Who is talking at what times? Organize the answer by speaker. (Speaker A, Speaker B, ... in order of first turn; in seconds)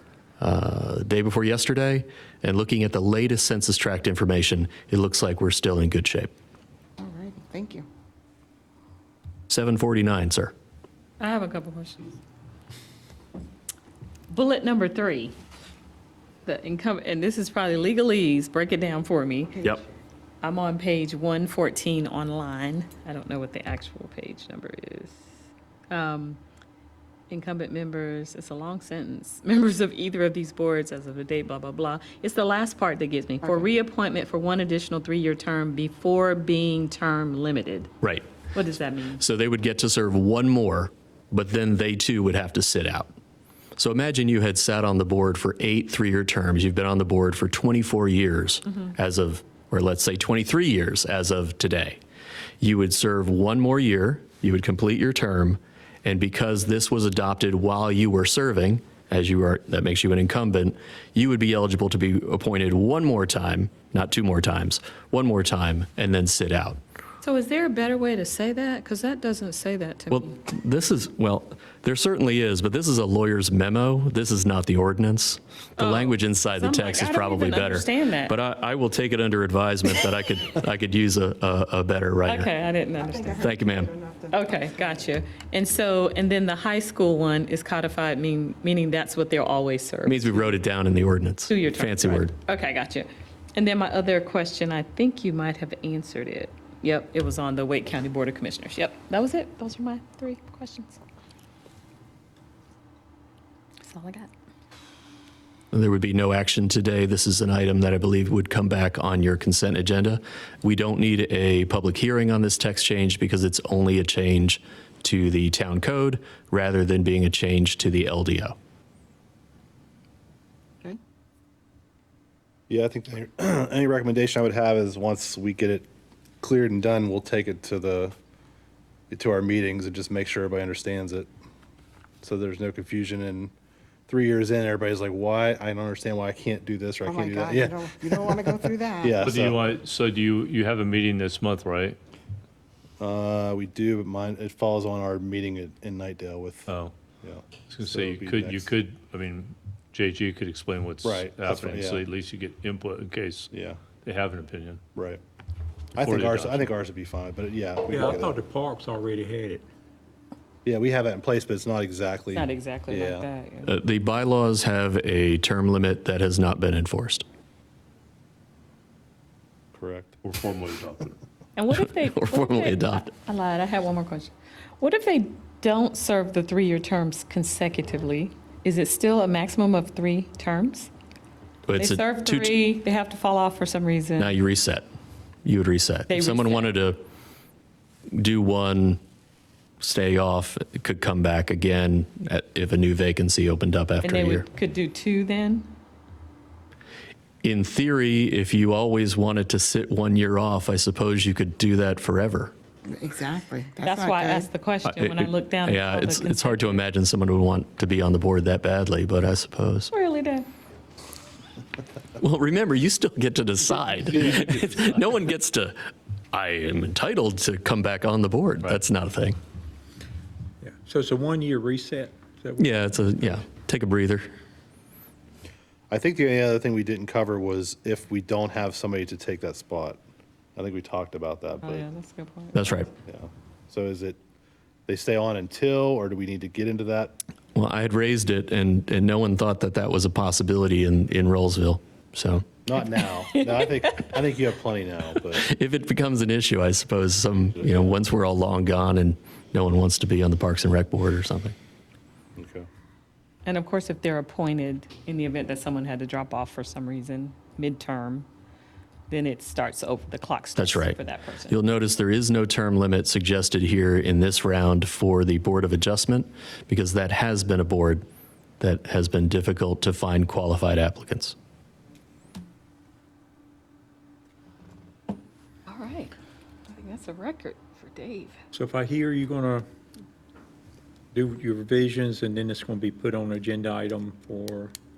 Speaker A: 0.4-6.3, 9.5-10.5, 39.2-43.1, 43.8-52.0, 52.6-66.8, 70.1-82.5, 83.4-83.9, 90.1-92.3, 105.7-118.5, 163.7-167.2, 172.0-173.1, 181.7-182.5, 184.2-184.9, 185.4-187.0, 188.1-189.0, 189.8-194.5, 197.4-202.5, 204.8-209.9, 212.2-215.8, 216.3-219.4, 222.6-224.3, 232.5-232.9, 237.6-242.5, 245.4-251.6, 260.6-261.0, 261.5-268.1, 268.6-271.4
Speaker B: 7.0-7.9, 83.2-84.4, 137.1-139.4, 202.9-204.5
Speaker C: 11.2-12.2, 14.3-15.3, 16.4-19.7, 20.4-25.2, 25.9-26.4, 27.3-37.9, 38.5-39.2, 67.2-70.3, 75.8-78.3, 82.3-83.5, 84.3-90.5, 91.5-101.0, 103.8-104.3, 162.3-163.7, 171.6-180.9, 181.8-184.4, 186.1-186.7, 194.0-195.7, 203.8-206.8, 209.9-210.5, 231.6-232.8, 243.3-244.1, 253.4-258.3, 259.1-261.6, 275.7-276.1, 276.7-278.4
Speaker D: 122.7-125.9, 126.4-128.1, 129.1-131.3, 132.2-133.5, 134.1-139.7, 143.0-148.7, 151.0-152.1, 153.5-153.8, 154.9-155.2, 155.9-158.4, 160.7-163.3, 169.7-170.2, 225.9-230.0, 230.6-231.9, 233.1-234.2, 234.9-237.2, 242.7-245.5, 252.4-252.7
Speaker E: 139.2-142.0, 146.7-146.9, 147.7-153.5, 154.0-154.8, 156.0-156.7, 170.2-171.1
Speaker F: 157.9-159.7, 220.6-223.0, 278.5-279.7, 281.1-284.7